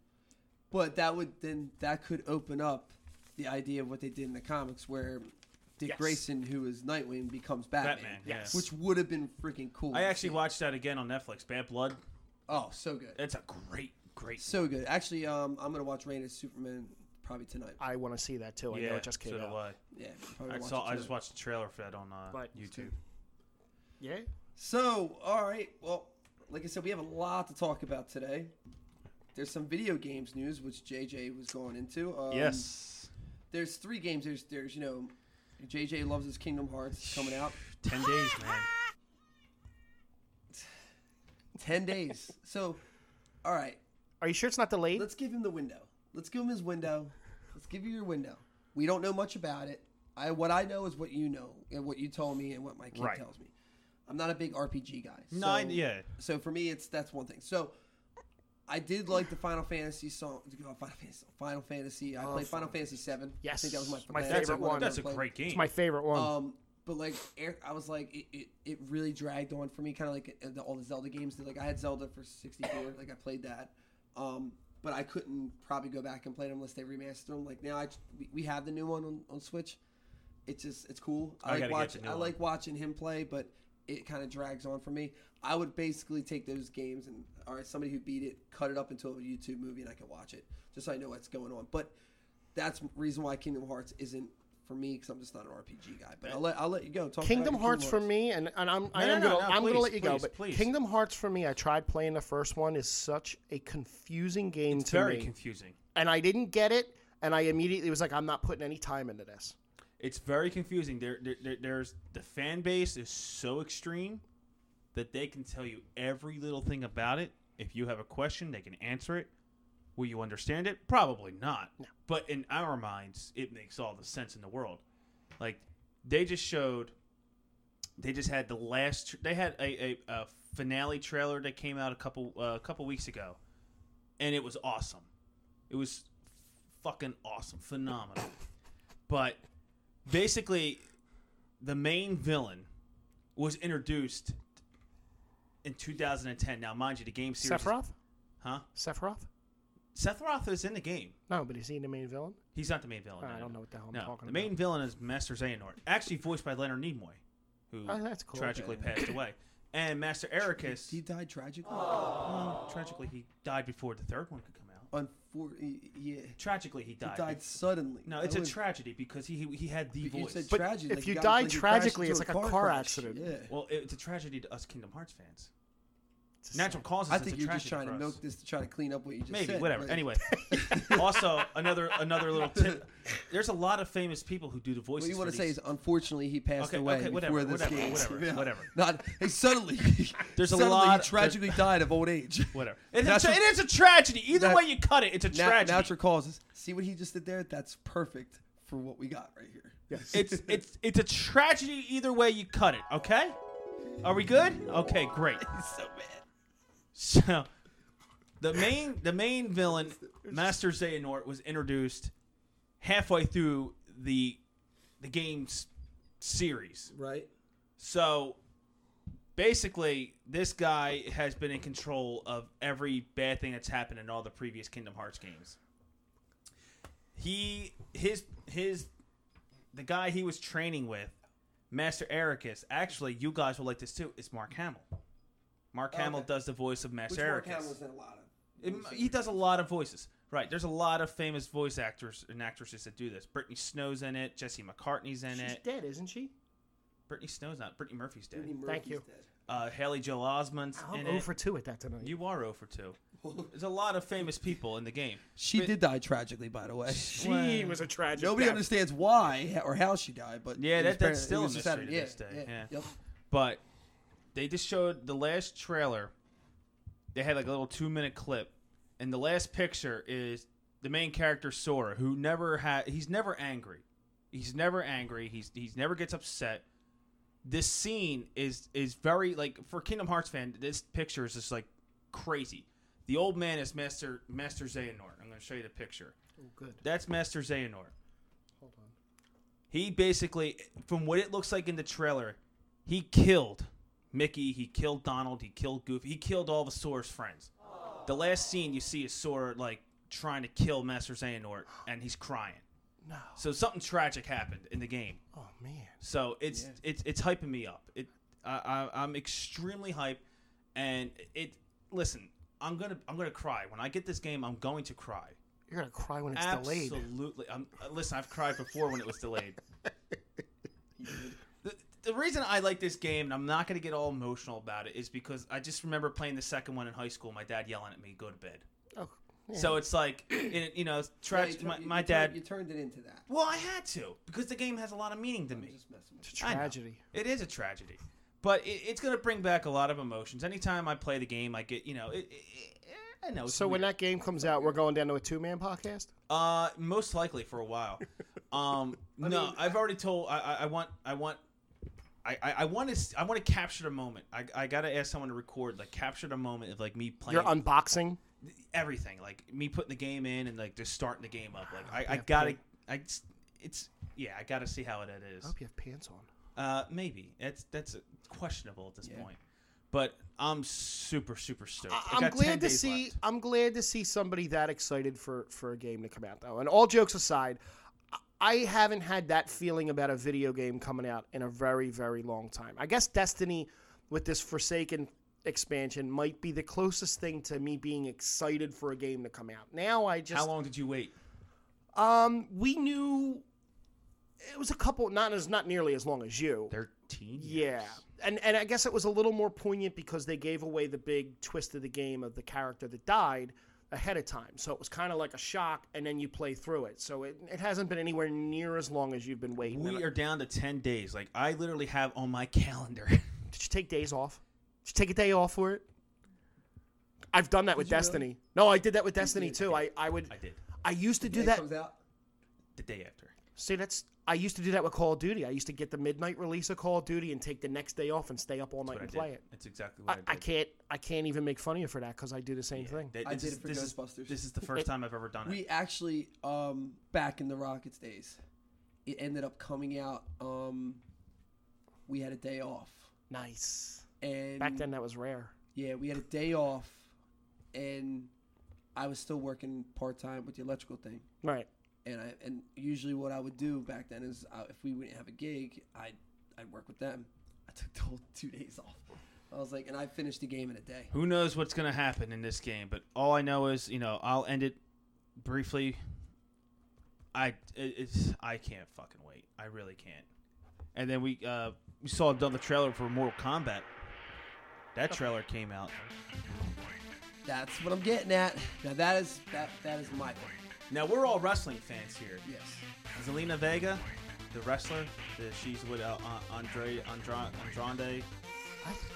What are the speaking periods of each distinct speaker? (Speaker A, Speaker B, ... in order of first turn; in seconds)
Speaker A: 0.7-10.4, 12.5-13.2, 14.4-17.8, 19.9-21.1, 24.6-28.5, 29.4-32.7, 33.5-37.6, 41.6-42.8, 43.4-43.8, 45.0-53.5, 54.1-57.7, 58.7-65.3, 66.1-79.8, 80.5-91.9, 92.5-98.1, 158.5-158.9, 160.6-162.1, 164.9-166.4, 167.0-168.6, 170.0-173.5, 177.1-181.2, 182.3-182.8, 185.0-193.4, 194.3-194.6, 195.3-200.6, 205.4-206.2, 209.8-210.1, 216.9-217.3, 235.9-236.3, 237.1-239.4, 248.3-249.3, 253.2-253.5, 255.4-257.3, 258.1-262.9, 306.5-306.8, 321.0-321.4, 331.3-333.3, 335.5-336.6, 349.2-349.8, 417.8-418.3, 419.2-419.8, 421.2-422.0, 433.2-434.4, 435.4-438.4, 439.1-441.0, 442.1-443.1, 444.2-444.9, 445.8-447.1, 447.7-448.3, 448.9-451.3, 452.1-461.1, 477.5-480.6, 482.4-482.9
Speaker B: 5.9-6.2, 8.2-8.7, 17.8-19.6, 22.3-22.9, 24.0-24.3, 44.2-45.1, 62.2-62.8, 63.4-66.3, 97.2-105.3, 106.0-109.6, 147.4-147.9, 148.8-149.3, 151.3-152.4, 153.2-154.5, 157.9-158.7, 170.5-173.3, 176.4-176.8, 199.9-200.2, 245.3-246.3, 248.7-249.0, 250.8-252.2, 257.1-258.7, 286.4-286.8, 288.6-288.9, 303.0-303.4, 305.3-306.0, 315.7-317.1, 329.0-329.8, 336.2-337.0, 343.5-346.1, 357.3-358.2, 361.9-362.6, 365.4-366.3, 371.9-377.6, 378.1-390.5, 391.9-393.4, 394.4-396.8, 397.4-410.1, 413.5-415.9, 417.3-421.6, 423.6-429.4, 430.1-433.1, 443.3-444.1, 444.6-445.5, 451.4-451.7
Speaker C: 7.8-8.6, 9.9-12.0, 13.2-14.7, 18.7-19.8, 20.5-22.9, 32.3-33.1, 37.7-38.7, 52.9-53.2, 55.3-56.1, 64.2-65.7, 81.4-82.4, 98.9-100.7, 104.7-105.8, 110.0-114.2, 114.9-119.3, 120.0-124.8, 125.4-126.9, 128.0-133.4, 134.2-135.1, 135.7-136.2, 136.8-138.3, 139.1-139.4, 140.1-140.8, 141.6-142.7, 143.4-144.4, 145.6-147.7, 149.9-151.1, 152.5-157.2, 157.7-161.0, 162.2-164.9, 166.4-167.4, 168.1-170.6, 173.5-175.5, 176.5-178.2, 179.3-185.6, 186.6-188.7, 190.4-191.7, 192.5-195.9, 200.1-203.4, 204.0-205.4, 206.9-207.5, 208.4-212.1, 212.8-214.4, 215.0-215.7, 216.2-216.9, 217.8-218.4, 219.4-225.6, 227.2-228.9, 229.7-231.1, 231.7-234.9, 235.7-237.8, 238.6-245.6, 247.1-248.5, 249.5-251.3, 252.0-253.0, 253.5-255.7, 257.1-257.8, 260.6-262.7, 263.3-263.6, 264.3-266.1, 267.1-276.6, 277.4-286.1, 286.8-287.9, 289.7-297.5, 298.1-302.6, 303.4-305.2, 306.0-310.2, 310.8-315.4, 316.4-319.6, 321.6-328.6, 329.5-332.4, 333.3-335.7, 336.4-343.9, 346.3-351.4, 352.2-357.6, 358.4-365.5, 366.6-369.4, 369.9-373.2, 390.3-391.1, 396.7-398.0, 409.6-413.3, 420.3-420.6, 422.8-423.3, 428.9-430.4, 432.8-435.6, 461.1-464.8, 465.4-466.0, 467.3-470.3, 470.9-473.9, 474.9-476.1, 480.9-482.4, 483.1-488.3